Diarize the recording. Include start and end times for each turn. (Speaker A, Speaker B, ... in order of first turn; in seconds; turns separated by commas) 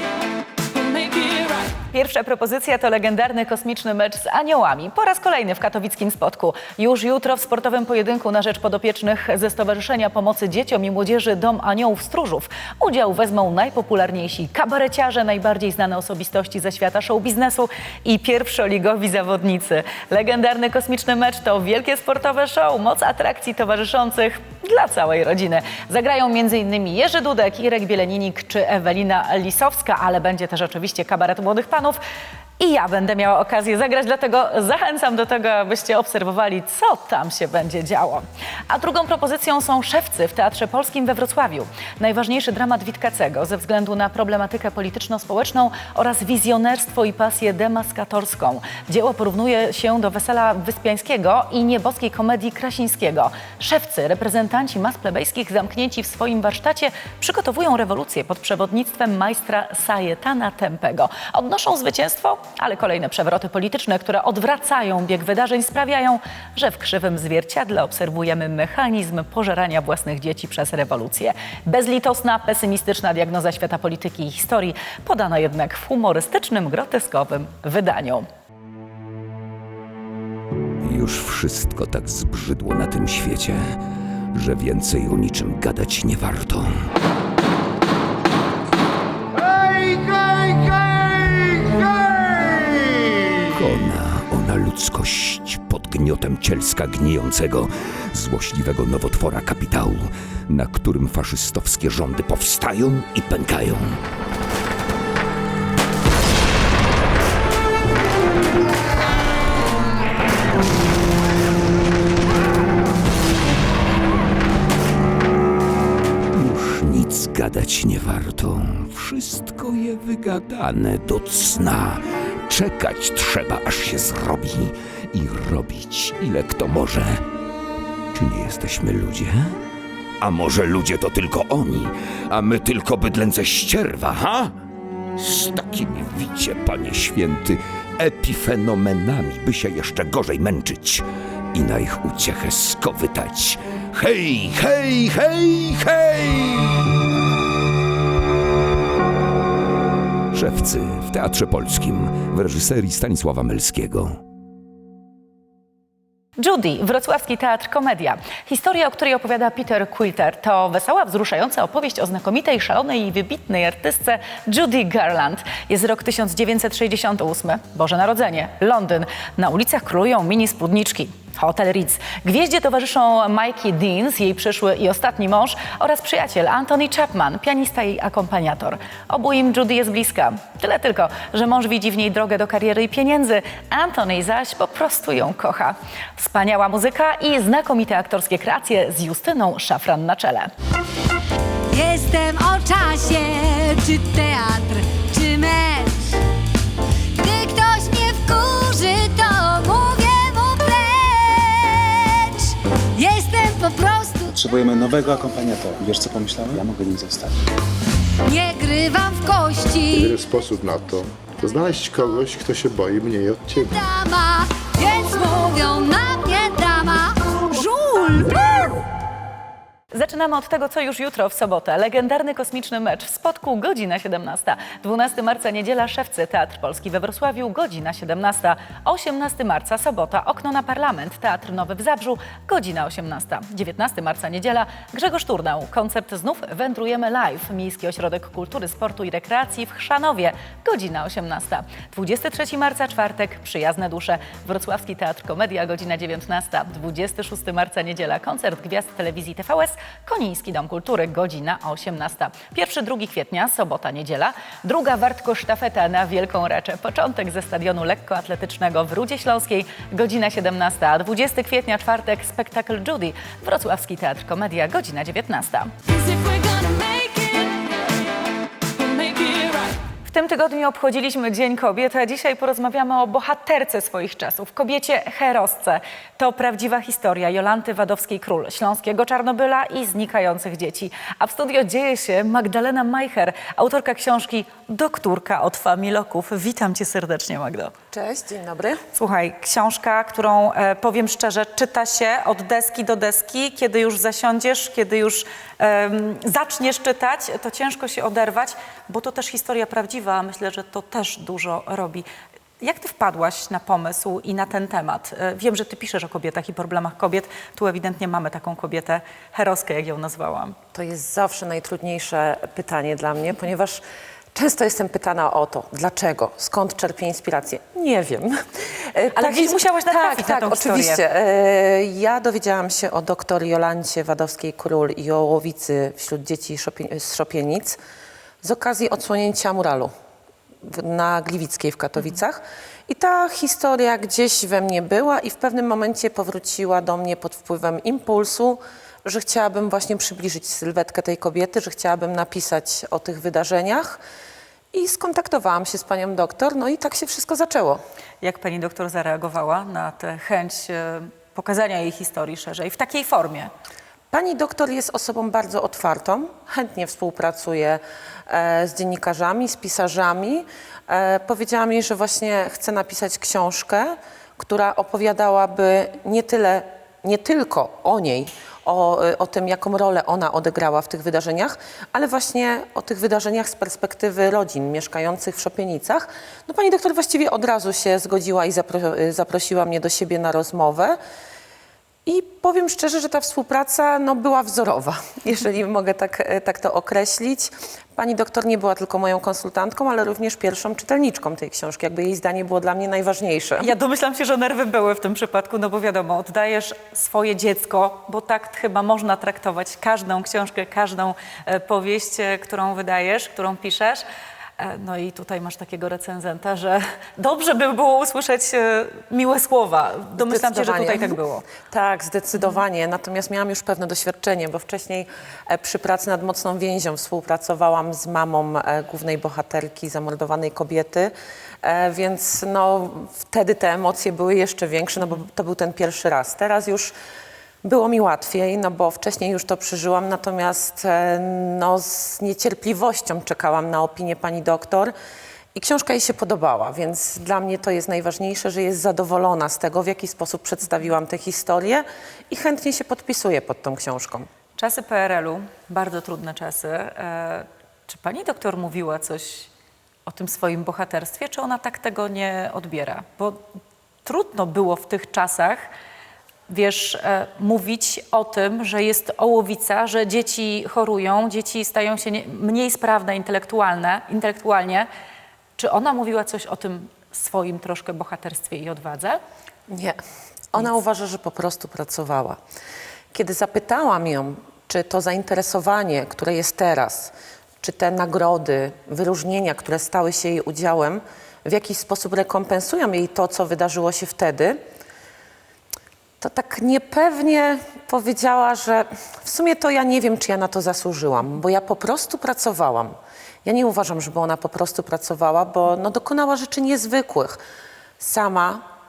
Speaker A: 0.7-32.0, Speaker A: 32.6-78.3, Speaker B: 80.8-83.8, Speaker B: 84.3-86.7, Speaker B: 93.5-104.0, Speaker B: 116.3-127.2, Speaker B: 128.1-129.5, Speaker B: 130.2-134.5, Speaker B: 135.2-141.0, Speaker B: 141.5-146.8, Speaker B: 150.3-154.2, Speaker A: 156.4-190.5, Speaker C: 191.7-196.1, Speaker C: 197.2-204.3, Speaker D: 204.3-207.4, Speaker C: 208.3-210.1, Speaker E: 209.9-213.7, Speaker C: 213.7-218.2, Speaker A: 219.9-267.6, Speaker A: 268.8-287.7, Speaker F: 287.9-288.8, Speaker A: 288.9-302.1, Speaker A: 302.6-310.6, Speaker F: 310.7-313.8, Speaker F: 314.4-318.3, Speaker F: 318.9-327.8, Speaker A: 319.1-321.0, Speaker F: 328.4-329.9, Speaker F: 330.6-344.0, Speaker F: 344.7-347.8, Speaker A: 348.2-353.5, Speaker F: 354.1-381.0, Speaker F: 382.1-393.7, Speaker A: 393.6-404.0, Speaker A: 404.6-411.5, Speaker F: 410.2-411.2, Speaker F: 411.7-421.1, Speaker F: 421.6-426.9, Speaker F: 427.6-434.9, Speaker F: 435.6-444.3, Speaker A: 444.6-449.5, Speaker A: 450.1-453.4, Speaker A: 454.1-455.6, Speaker A: 456.5-464.9, Speaker A: 465.6-469.2, Speaker F: 469.7-470.0, Speaker F: 470.5-472.4, Speaker F: 473.1-484.6, Speaker F: 486.2-492.9, Speaker F: 493.4-497.4, Speaker F: 498.0-498.6